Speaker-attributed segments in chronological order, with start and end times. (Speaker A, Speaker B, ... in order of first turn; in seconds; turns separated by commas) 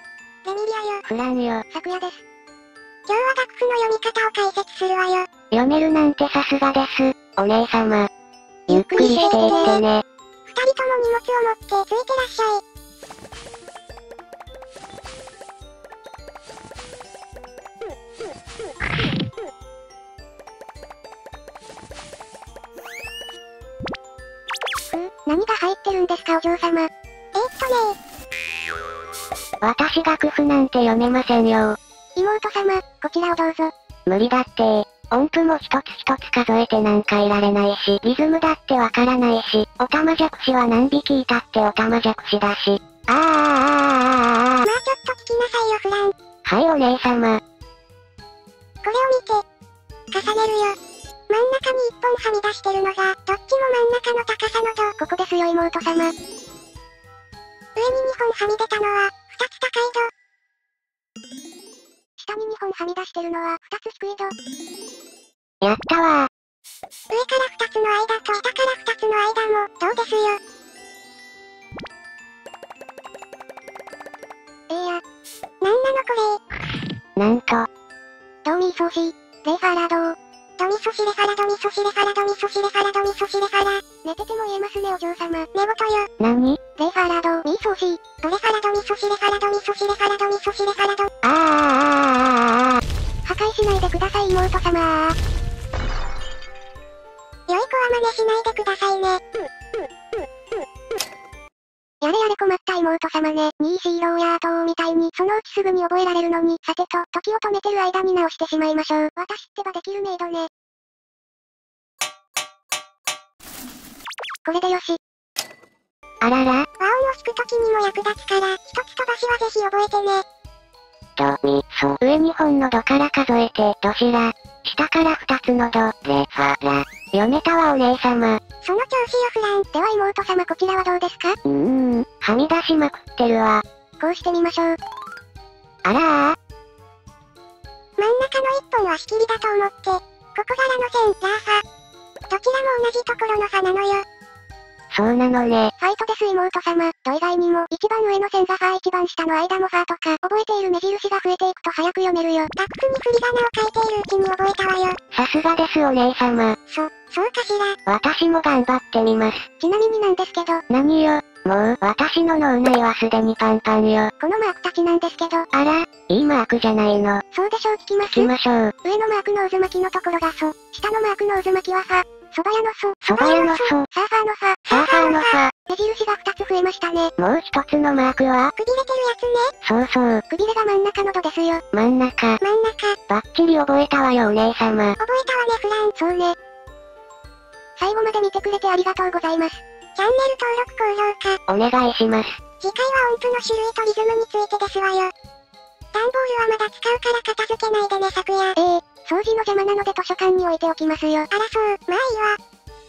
Speaker A: 0.5-1.1, Speaker B: 1.1-1.6, Speaker A: 1.7-2.2, Speaker A: 3.1-5.3, Speaker B: 5.5-8.1, Speaker A: 8.7-9.8, Speaker B: 8.7-10.0, Speaker A: 10.5-12.6, Speaker A: 24.9-28.0, Speaker B: 29.6-31.8, Speaker A: 32.2-33.7, Speaker B: 34.1-44.6, Speaker A: 44.6-46.1, Speaker B: 46.5-47.4, Speaker A: 48.8-49.5, Speaker A: 50.1-50.8, Speaker A: 51.3-56.1, Speaker A: 57.8-60.1, Speaker A: 62.2-64.3, Speaker B: 65.6-66.3, Speaker A: 67.1-70.4, Speaker A: 74.7-75.0, Speaker A: 75.6-76.4, Speaker B: 77.2-77.7, Speaker A: 78.5-86.1, Speaker B: 86.2-86.6, Speaker A: 86.8-91.1, Speaker B: 91.2-92.8, Speaker A: 93.2-95.2, Speaker A: 97.5-99.2, Speaker A: 102.0-110.5, Speaker A: 114.5-115.0, Speaker B: 116.2-116.7, Speaker A: 116.8-120.2, Speaker B: 121.2-128.4, Speaker A: 128.6-131.4, Speaker B: 131.4-133.6, Speaker A: 134.0-134.8, Speaker B: 135.8-136.4, Speaker A: 138.0-141.6, Speaker A: 142.3-144.1, Speaker B: 144.9-145.7, Speaker A: 145.8-155.0, Speaker B: 155.1-156.6, Speaker A: 156.7-157.8, Speaker B: 157.9-159.4, Speaker A: 159.6-160.6, Speaker B: 160.7-164.1, Speaker A: 164.2-165.5, Speaker B: 165.5-167.2, Speaker A: 167.3-168.3, Speaker B: 168.1-168.7, Speaker A: 168.8-177.1, Speaker B: 173.1-173.9, Speaker B: 174.7-175.5, Speaker B: 177.2-178.5, Speaker A: 178.6-179.5, Speaker B: 179.6-180.2, Speaker A: 180.3-181.6, Speaker B: 181.7-182.4, Speaker A: 182.4-183.0, Speaker B: 183.1-185.0, Speaker A: 185.0-186.4, Speaker A: 187.8-191.4, Speaker B: 191.5-192.3, Speaker A: 192.6-195.1, Speaker A: 195.9-202.4